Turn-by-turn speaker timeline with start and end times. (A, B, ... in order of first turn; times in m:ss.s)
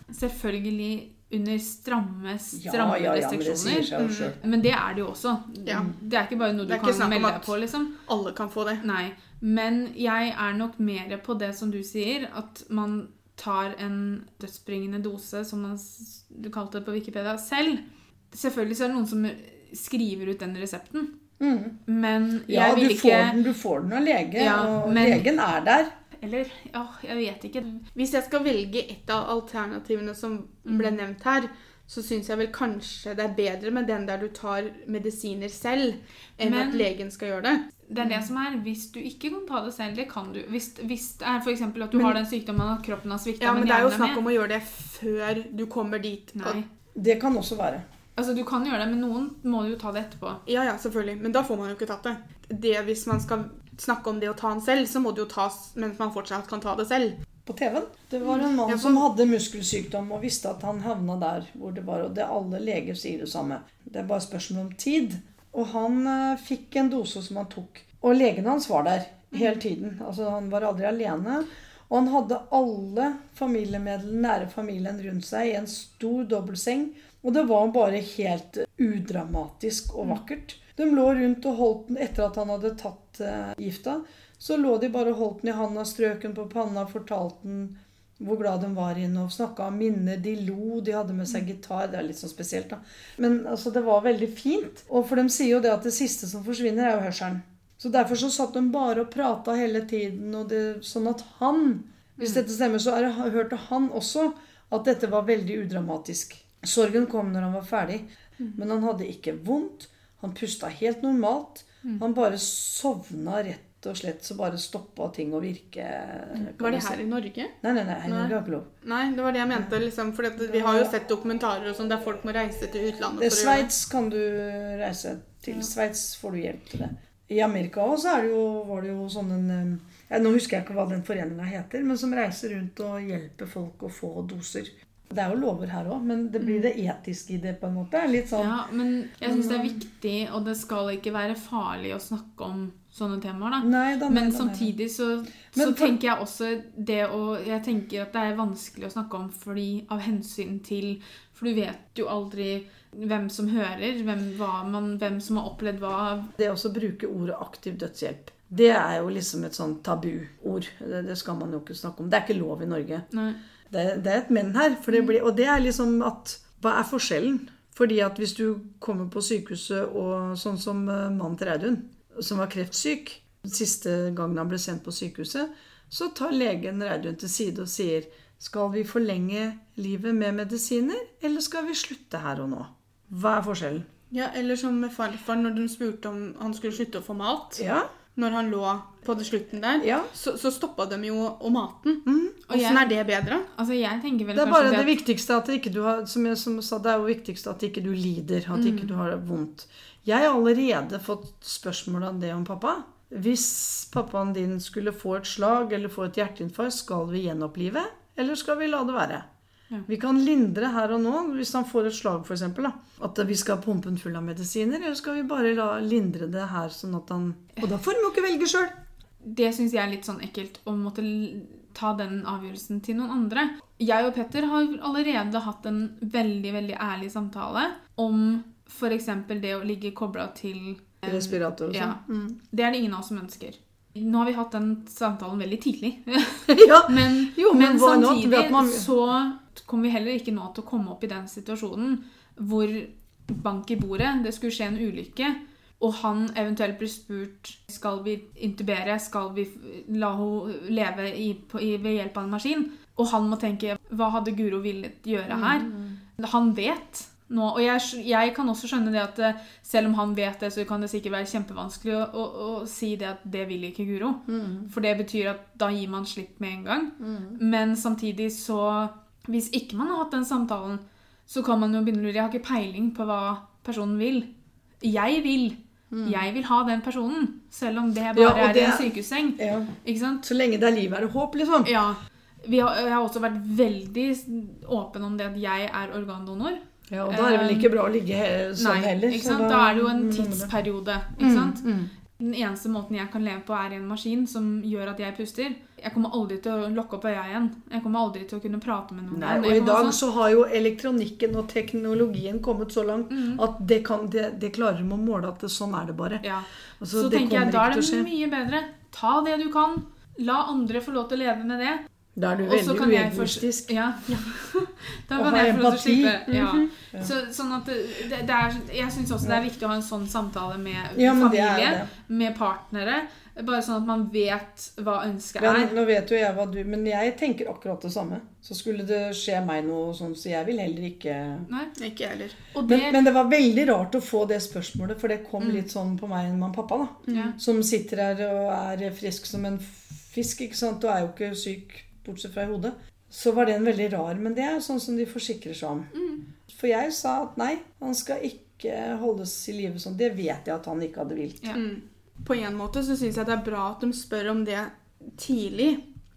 0:00.1-0:08.0 A
0:02.5-0:04.4 B
0:04.0-0:04.3 C
0:05.6-0:05.9 C
0:06.6-0:07.5 C
0:08.1-0:08.8 C
0:08.8-0:21.2 A
0:21.4-0:21.8 B
0:21.9-0:23.4 A
0:22.5-0:25.9 B
0:24.4-0:25.3 A
0:26.2-0:27.9 A
0:28.0-0:37.6 C
0:30.7-0:31.0 A
0:36.4-0:36.9 A
0:37.9-0:44.2 A
0:41.9-0:42.2 B
0:43.4-0:46.6 C
0:46.4-0:46.7 A
0:47.0-0:47.9 B
0:48.2-0:50.4 A
0:50.5-0:57.2 C
0:57.5-1:57.0 B
0:58.6-0:59.1 C
1:56.4-1:57.5 C
1:57.6-1:58.7 B
1:58.0-2:03.7 C
2:00.4-2:00.9 B
2:03.2-2:18.6 B
2:16.4-2:16.7 A
2:18.4-2:36.3 A
2:19.2-2:19.8 B
2:23.6-2:24.7 B
2:25.5-2:26.0 B
2:36.4-2:43.1 B
2:43.1-2:43.4 A
2:43.7-3:03.9 B
3:04.1-3:07.6 C
3:07.6-3:07.9 B
3:08.2-3:13.5 C
3:09.8-3:10.1 B
3:12.1-3:12.4 B
3:12.5-3:12.9 A
3:13.5-3:14.9 A
3:14.4-3:29.3 B
3:18.5-3:18.9 A
3:29.9-3:38.8 B
3:39.2-4:34.3 A
3:51.1-3:52.4 B
3:56.6-3:58.9 B
4:15.3-4:16.0 B
4:24.3-4:24.7 B
4:27.0-4:27.4 B
4:34.8-4:40.2 A
4:35.9-4:36.2 B
4:38.2-4:41.7 B
4:41.6-4:47.7 A
4:46.9-4:50.5 B
4:48.6-5:00.0 A
4:51.2-4:51.9 B
4:59.1-5:06.3 B
5:03.1-5:03.4 A
5:06.2-5:11.8 A
5:06.8-5:08.1 B
5:12.2-5:14.2 B
5:12.4-5:25.7 A
5:15.2-5:17.1 B
5:21.0-5:21.9 B
5:25.4-5:31.5 B
5:31.5-5:31.7 A
5:31.8-5:32.4 C
5:32.5-5:33.0 A
5:32.7-5:45.9 B
5:37.1-5:37.4 C
5:37.1-5:37.4 A
5:46.5-5:51.5 B
5:51.5-5:55.8 C